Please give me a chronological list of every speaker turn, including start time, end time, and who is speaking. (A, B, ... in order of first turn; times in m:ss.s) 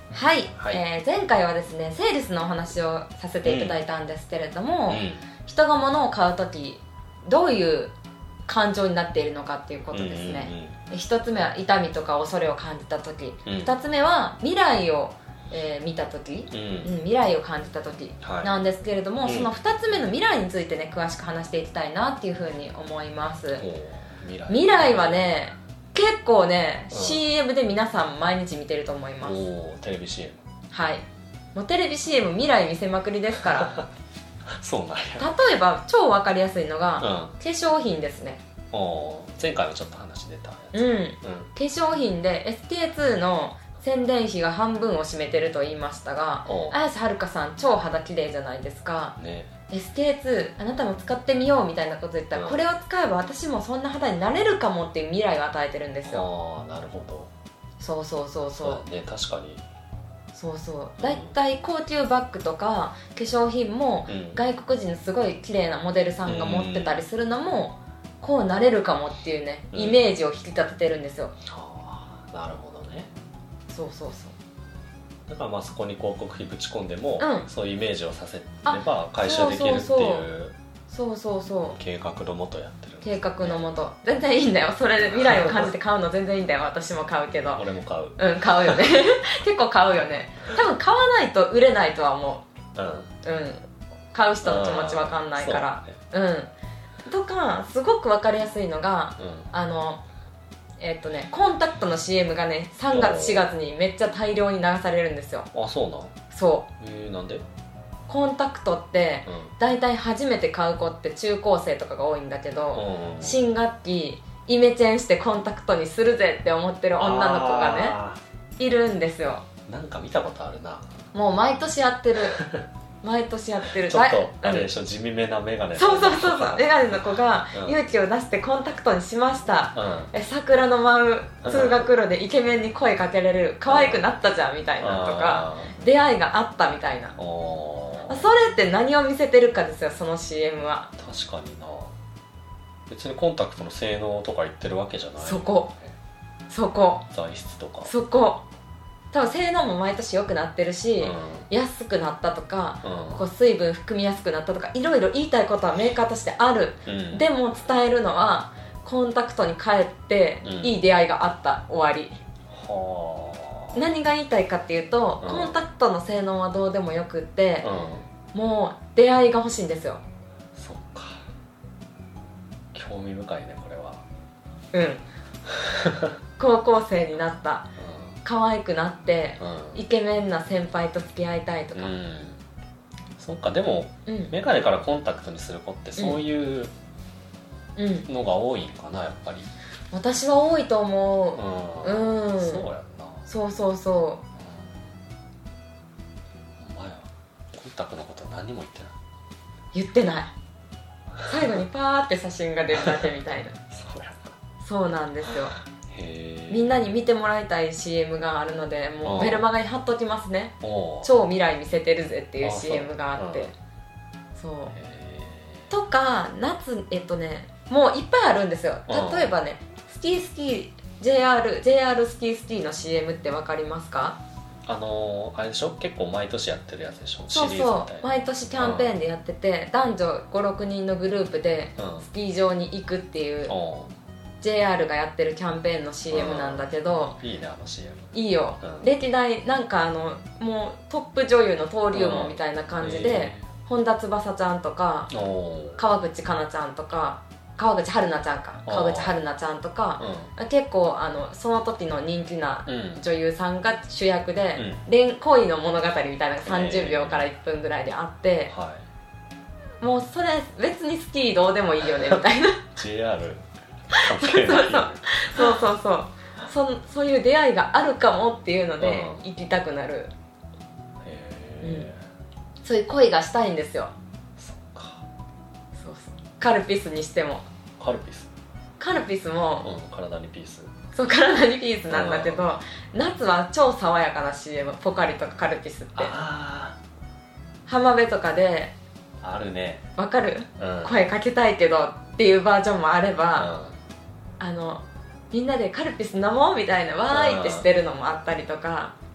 0:00.1-0:07.9 A
0:00.6-0:00.8 B
0:03.4-0:03.8 B
0:04.9-0:05.2 B
0:08.5-0:23.6 A
0:09.9-0:10.8 B
0:13.4-0:13.7 B
0:16.5-0:16.9 B
0:18.2-0:18.5 B
0:19.2-0:19.5 B
0:23.6-0:25.4 B
0:24.5-0:29.4 A
0:26.9-0:27.2 B
0:29.2-0:30.4 B
0:30.7-0:33.8 A
0:33.4-0:33.8 B
0:34.6-0:35.3 B
0:35.2-0:38.4 A
0:37.0-0:37.3 B
0:38.7-0:41.5 B
0:40.7-0:49.2 A
0:46.4-0:46.8 B
0:49.2-0:49.5 B
0:49.7-0:56.3 A
0:52.3-0:52.6 B
0:56.0-0:57.3 B
0:57.8-0:58.8 A
0:58.6-0:59.6 B
1:00.3-1:11.4 A
1:01.0-1:01.3 B
1:04.1-1:04.4 B
1:06.2-1:07.0 B
1:09.7-1:10.0 B
1:11.4-1:13.1 B
1:13.7-1:14.3 A
1:15.3-1:20.6 B
1:17.2-1:17.5 A
1:18.6-1:20.3 A
1:20.9-1:21.8 A
1:21.8-1:23.7 B
1:23.0-1:32.5 A
1:25.0-1:25.7 B
1:27.5-1:29.0 B
1:32.7-1:33.1 B
1:33.2-1:36.5 A
1:34.4-1:35.9 B
1:37.0-1:40.0 A
1:39.2-1:39.5 B
1:40.8-1:45.5 A
1:42.9-1:43.5 B
1:45.5-1:46.1 B
1:46.3-1:46.7 A
1:46.8-1:47.4 B
1:48.1-1:58.0 A
1:49.2-1:49.5 B
1:52.7-1:53.4 B
1:57.0-1:58.2 B
1:58.6-1:59.4 A
1:59.7-2:00.9 B
2:01.1-2:02.4 A
2:02.3-2:02.6 B
2:03.0-2:04.7 A
2:03.8-2:07.0 B
2:05.7-2:17.2 A
2:07.5-2:07.8 B
2:09.7-2:10.1 B
2:11.4-2:11.9 B
2:13.7-2:14.0 B
2:14.8-2:15.7 B
2:17.2-2:18.3 B
2:18.1-2:20.9 A
2:21.0-2:21.9 B
2:22.9-2:26.0 B
2:25.2-2:25.7 A
2:26.5-2:27.1 A
2:27.1-2:27.9 B
2:27.8-2:28.4 A
2:29.1-2:42.2 A
2:31.0-2:31.5 B
2:32.8-2:33.2 B
2:36.8-2:37.2 B
2:40.4-2:40.8 B
2:42.5-2:43.8 B
2:43.7-2:47.7 A
2:45.2-2:45.6 B
2:47.6-2:48.1 B
2:48.3-2:50.0 A
2:50.5-2:51.2 B
2:52.7-2:54.0 B
2:54.7-2:55.0 A
2:55.5-2:56.1 B
2:56.4-2:57.7 A
2:57.8-2:58.2 B
2:58.2-3:02.0 A
2:59.4-2:59.8 B
3:01.7-3:02.4 B
3:03.2-3:06.7 B
3:04.1-3:04.3 A
3:06.0-3:06.2 A
3:07.8-3:08.1 A
3:08.1-3:09.5 B
3:09.9-3:12.7 A
3:11.3-3:13.2 B
3:13.3-3:14.2 A
3:14.4-3:14.7 B
3:16.6-3:18.9 B
3:19.7-3:20.3 A
3:21.2-3:23.6 A
3:23.7-3:24.4 B
3:24.6-3:25.6 A
3:25.9-3:26.8 B
3:26.5-3:33.5 A
3:29.0-3:29.5 B
3:30.6-3:31.1 B
3:32.4-3:33.5 B
3:34.3-3:34.7 A
3:34.7-3:35.7 B
3:35.7-3:44.2 A
3:38.9-3:39.3 B
3:44.6-3:49.0 B
3:47.3-3:53.5 A
3:51.8-3:52.1 B
3:53.5-3:53.9 B
3:54.4-3:57.2 A
3:56.1-3:58.9 B
3:58.1-4:05.1 A
4:01.9-4:03.5 B
4:05.1-4:05.9 B
4:05.8-4:18.5 A
4:08.6-4:09.2 B
4:10.0-4:10.3 B
4:12.7-4:13.0 B
4:14.6-4:14.8 B
4:16.4-4:17.3 B
4:18.5-4:18.8 B
4:19.8-4:22.7 A
4:21.8-4:22.2 B
4:22.7-4:23.4 B
4:23.9-4:30.1 A
4:24.0-4:25.6 B
4:28.8-4:29.2 B
4:31.0-4:32.0 B
4:31.6-4:31.9 A
4:32.6-4:33.9 A
4:34.4-4:35.0 B
4:35.7-4:37.4 A
4:37.8-4:38.3 B
4:38.8-4:39.7 A
4:39.6-4:40.7 B
4:40.9-4:46.2 A
4:41.9-4:42.6 B
4:46.0-4:46.8 B
4:47.7-4:48.7 A
4:49.2-4:49.8 B
4:50.0-4:53.5 A
4:50.6-4:51.0 B
4:53.4-4:53.8 B
4:54.4-4:58.9 A
4:57.1-4:57.7 B